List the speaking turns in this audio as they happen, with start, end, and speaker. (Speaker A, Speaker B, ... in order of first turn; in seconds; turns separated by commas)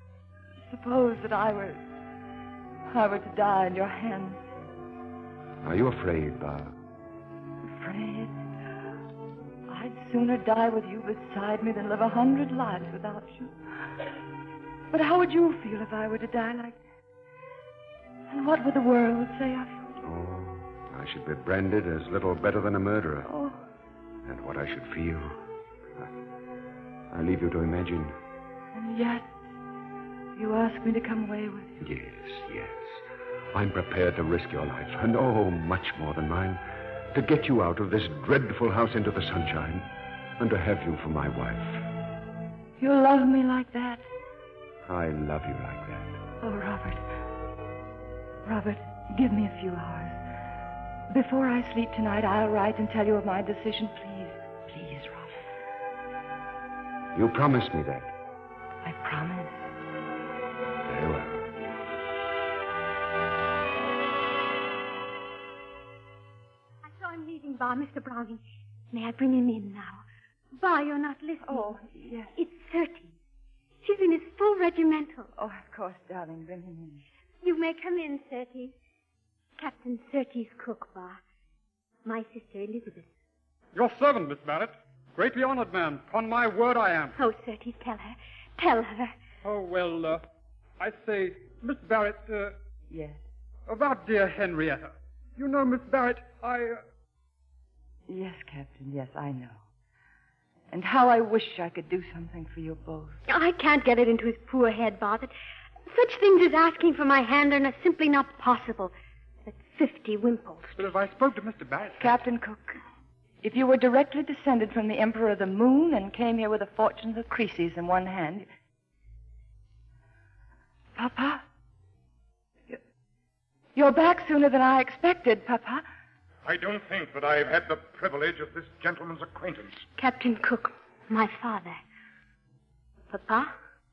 Speaker A: 0.7-1.8, Speaker A: 2.9-4.4, Speaker B: 5.6-6.7, Speaker A: 7.7-8.3, Speaker A: 9.7-13.5, Speaker A: 14.9-16.8, Speaker A: 18.3-19.7, Speaker B: 20.0-23.3, Speaker A: 23.3-23.6, Speaker B: 24.2-25.4, Speaker B: 27.1-28.1, Speaker A: 28.7-29.3, Speaker A: 30.3-31.7, Speaker B: 31.8-33.0, Speaker B: 33.5-36.6, Speaker B: 37.1-39.9, Speaker B: 40.4-41.9, Speaker A: 42.8-44.0, Speaker B: 44.9-46.2, Speaker A: 46.4-47.0, Speaker A: 48.5-50.2, Speaker A: 51.1-55.3, Speaker B: 57.1-58.1, Speaker A: 58.8-59.6, Speaker B: 60.9-61.5, Speaker C: 67.0-68.4, Speaker C: 69.0-69.9, Speaker C: 70.6-71.5, Speaker A: 71.4-72.3, Speaker C: 72.4-73.0, Speaker C: 73.8-75.2, Speaker A: 75.3-77.0, Speaker C: 77.5-78.6, Speaker C: 79.6-81.1, Speaker C: 82.1-83.0, Speaker D: 83.7-87.2, Speaker C: 87.2-88.1, Speaker D: 89.4-90.2, Speaker D: 90.8-92.5, Speaker A: 92.9-93.2, Speaker D: 93.7-96.8, Speaker A: 98.1-99.6, Speaker A: 100.7-103.2, Speaker C: 103.5-105.3, Speaker C: 105.9-108.9, Speaker C: 109.6-110.7, Speaker D: 110.8-112.2, Speaker A: 112.0-112.8, Speaker A: 113.4-118.5, Speaker A: 121.0-121.4, Speaker A: 123.7-125.8, Speaker E: 126.4-129.8, Speaker C: 130.0-131.7, Speaker C: 133.1-133.4